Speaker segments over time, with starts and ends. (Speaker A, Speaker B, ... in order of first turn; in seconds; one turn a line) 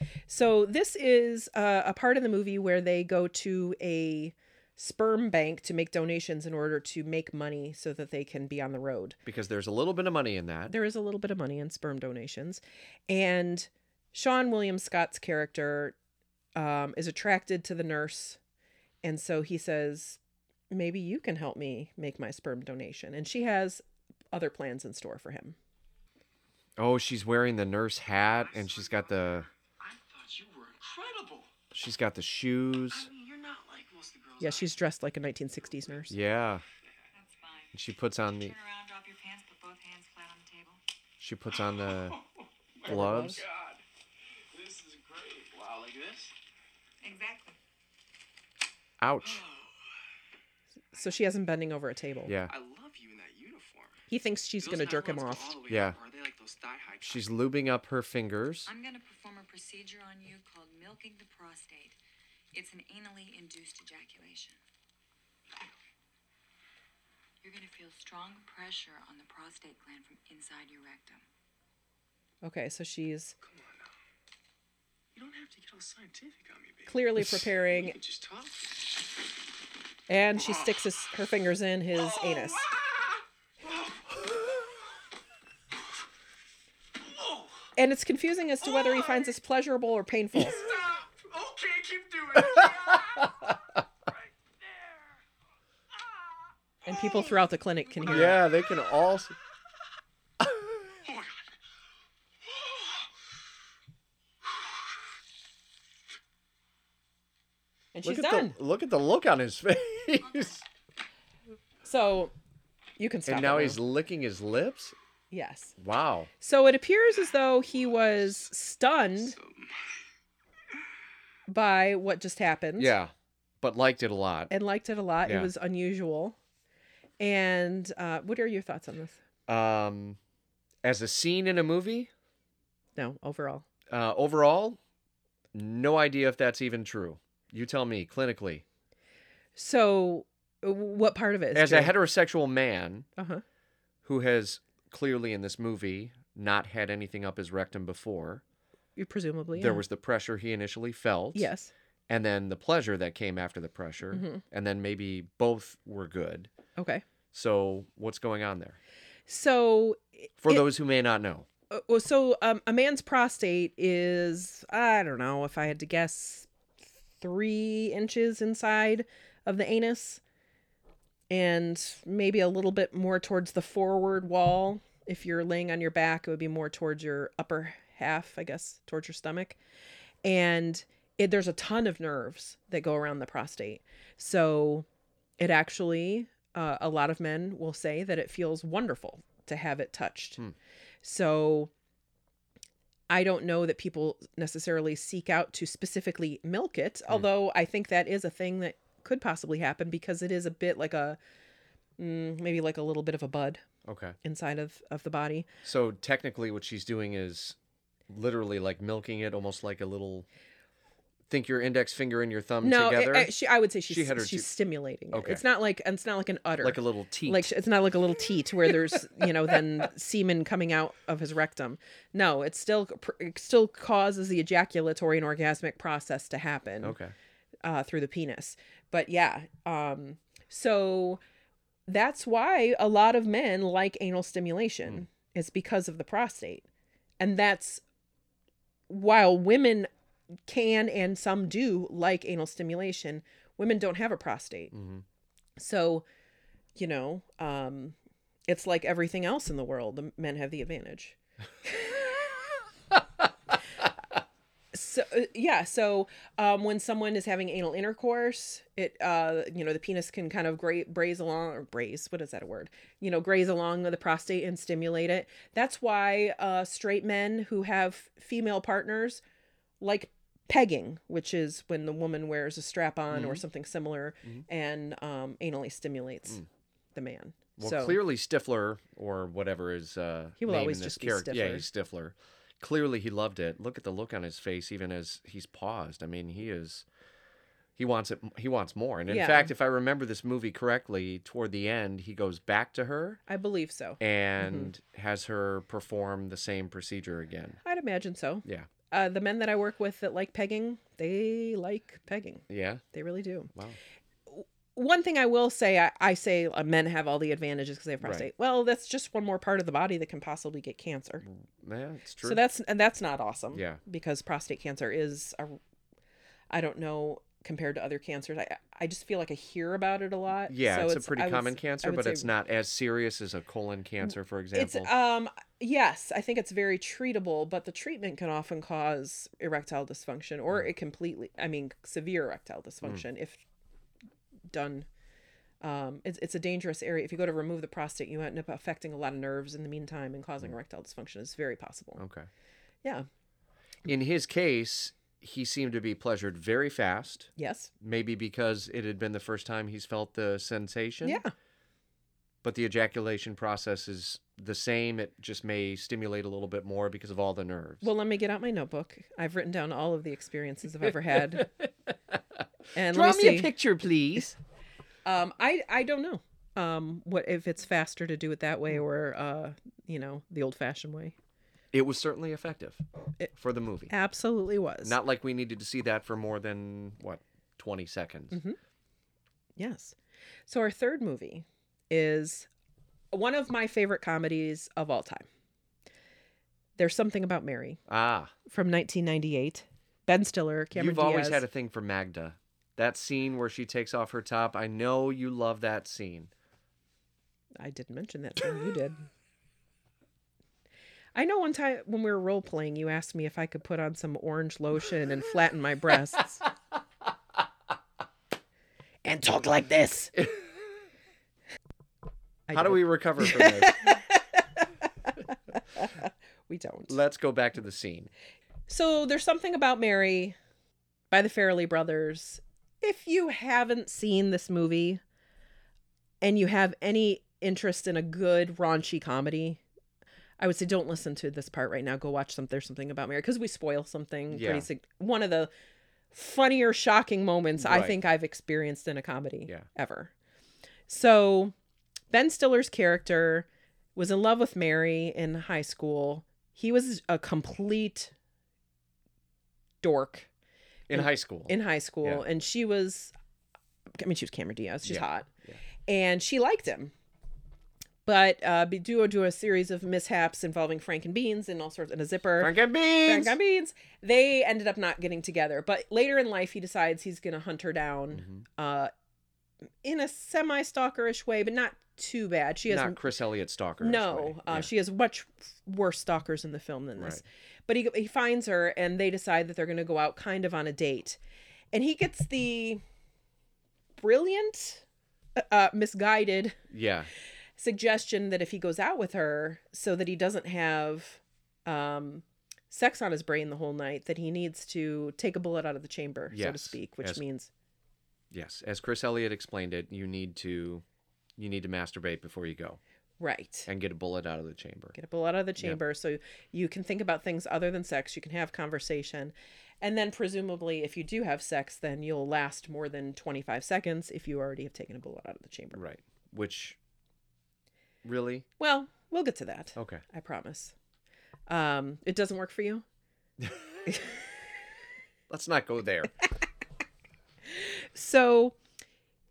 Speaker A: 0.3-9.2
Speaker B: 9.2-10.7
Speaker A: 10.7-15.9
Speaker A: 16.6-18.4
Speaker A: 19.0-20.2
Speaker A: 20.7-25.6
Speaker B: 26.8-29.5
Speaker C: 28.3-31.5
Speaker B: 31.7-33.1
Speaker C: 32.9-34.8
Speaker A: 34.4-36.1
Speaker C: 35.5-36.0
Speaker B: 36.1-36.6
Speaker D: 37.1-40.8
Speaker B: 37.7-38.5
Speaker B: 41.2-42.2
Speaker C: 41.5-43.8
Speaker B: 42.9-43.4
Speaker A: 42.9-43.4
Speaker C: 44.5-46.3
Speaker D: 47.0-47.6
Speaker B: 49.0-49.4
Speaker C: 49.2-49.7
Speaker A: 50.9-52.3
Speaker B: 52.2-52.5
Speaker C: 52.5-54.0
Speaker A: 54.1-55.5
Speaker C: 54.6-57.3
Speaker B: 55.7-56.0
Speaker B: 57.0-58.7
Speaker D: 58.7-62.0
Speaker D: 62.5-64.6
Speaker D: 67.4-71.2
Speaker A: 72.4-73.3
Speaker C: 73.4-73.9
Speaker C: 75.1-78.7
Speaker A: 76.9-78.0
Speaker A: 80.1-82.6
Speaker C: 80.4-80.8
Speaker C: 81.9-84.5
Speaker C: 87.0-87.7
Speaker A: 87.8-90.6
Speaker C: 88.7-89.2
Speaker C: 90.3-93.5
Speaker C: 94.1-95.1
Speaker A: 96.8-98.4
Speaker B: 98.0-99.3
Speaker C: 101.0-101.3
Speaker A: 107.9-108.5
Speaker B: 108.0-110.6
Speaker A: 111.8-112.3
Speaker A: 113.0-113.8
Speaker B: 113.2-115.0
Speaker A: 115.3-115.7
Speaker B: 115.8-116.3
Speaker A: 116.4-119.4
Speaker C: 119.2-119.7
Speaker A: 121.5-122.9
Speaker B: 122.8-124.5
Speaker A: 124.5-126.4
Speaker B: 125.2-125.5
Speaker A: 127.2-129.2
Speaker B: 129.5-130.2
Speaker B: 130.8-132.1
Speaker A: 132.9-133.7
Speaker B: 133.9-134.8
Speaker B: 135.5-138.6
Speaker A: 139.6-141.9
Speaker B: 141.5-143.1
Speaker A: 143.2-143.4
Speaker B: 144.0-148.4
Speaker A: 148.9-149.8
Speaker B: 149.5-151.5
Speaker A: 151.3-151.7
Speaker B: 152.1-156.5
Speaker A: 154.1-154.4
Speaker A: 156.8-157.0
Speaker B: 157.3-158.8
Speaker A: 159.3-160.7
Speaker B: 160.4-161.5
Speaker A: 161.7-166.5
Speaker A: 167.2-170.2
Speaker A: 171.3-179.6
Speaker A: 180.2-184.8
Speaker A: 185.4-190.4
Speaker A: 191.0-191.7
Speaker A: 193.1-201.2
Speaker A: 202.0-203.6
Speaker B: 203.8-204.2
Speaker A: 204.2-205.5
Speaker B: 205.6-207.6
Speaker B: 208.1-210.3
Speaker B: 211.3-213.3
Speaker A: 212.6-226.9
Speaker B: 213.9-214.5
Speaker B: 215.1-215.4
Speaker B: 216.6-217.5
Speaker B: 226.8-227.1
Speaker A: 227.6-231.2
Speaker A: 231.9-236.7
Speaker A: 237.2-237.8
Speaker A: 238.9-239.9
Speaker A: 240.5-244.7
Speaker B: 244.7-245.0
Speaker A: 245.6-246.1
Speaker A: 246.8-247.9
Speaker A: 248.5-252.3
Speaker A: 254.7-269.2
Speaker A: 269.8-278.0
Speaker B: 273.1-273.4
Speaker B: 277.6-286.8
Speaker A: 280.4-281.6
Speaker B: 287.8-293.2
Speaker A: 289.1-289.5
Speaker A: 293.3-294.7
Speaker B: 294.0-297.6
Speaker A: 297.6-303.5
Speaker B: 302.5-302.8
Speaker A: 304.3-311.2
Speaker B: 308.0-308.3
Speaker B: 311.2-312.4
Speaker A: 312.2-315.6
Speaker B: 313.5-313.8
Speaker A: 316.5-322.3
Speaker B: 320.5-324.9
Speaker A: 324.5-333.4
Speaker A: 334.5-334.9
Speaker A: 335.6-342.0
Speaker B: 342.0-342.3
Speaker B: 343.8-351.2
Speaker A: 347.4-347.7
Speaker A: 351.0-351.3
Speaker B: 352.4-357.9
Speaker A: 357.8-361.5
Speaker B: 361.3-361.7
Speaker A: 362.7-363.5
Speaker B: 362.9-364.4
Speaker A: 365.0-371.1
Speaker B: 371.7-372.8
Speaker B: 373.3-373.9
Speaker A: 373.9-375.0
Speaker B: 374.8-378.4
Speaker A: 378.3-378.6
Speaker A: 379.6-379.9
Speaker A: 380.5-382.5
Speaker A: 383.1-385.3
Speaker A: 386.8-387.8
Speaker B: 387.9-388.3
Speaker A: 388.4-391.4
Speaker B: 390.7-396.3
Speaker A: 397.6-399.1
Speaker A: 401.1-406.4
Speaker A: 409.0-410.2
Speaker A: 412.5-415.1
Speaker B: 412.5-414.0
Speaker A: 415.8-417.0
Speaker B: 416.9-418.1
Speaker A: 418.7-420.4
Speaker A: 421.1-425.0
Speaker A: 426.2-429.6
Speaker A: 430.4-435.5
Speaker B: 434.3-434.7
Speaker A: 436.1-440.1
Speaker B: 437.6-437.9
Speaker A: 440.9-441.5
Speaker A: 442.1-448.1
Speaker A: 449.8-450.3
Speaker B: 450.9-452.2
Speaker A: 450.9-453.1
Speaker A: 453.9-455.3
Speaker B: 454.8-455.6
Speaker A: 455.9-456.9
Speaker A: 458.1-468.9
Speaker B: 462.4-463.4
Speaker B: 468.1-468.4
Speaker A: 469.8-473.0
Speaker B: 472.7-474.7
Speaker A: 473.8-481.2
Speaker A: 481.7-482.8
Speaker A: 484.0-484.8
Speaker A: 485.4-486.6
Speaker B: 486.7-487.1
Speaker A: 487.6-497.5
Speaker B: 496.3-497.2
Speaker B: 498.3-500.8
Speaker B: 501.4-502.8
Speaker A: 503.2-503.7
Speaker B: 503.7-504.9
Speaker A: 504.9-515.8
Speaker B: 515.7-516.8
Speaker B: 518.0-518.5
Speaker A: 518.6-520.7
Speaker B: 519.8-520.0
Speaker A: 521.5-522.8
Speaker B: 525.3-526.1
Speaker A: 527.5-528.6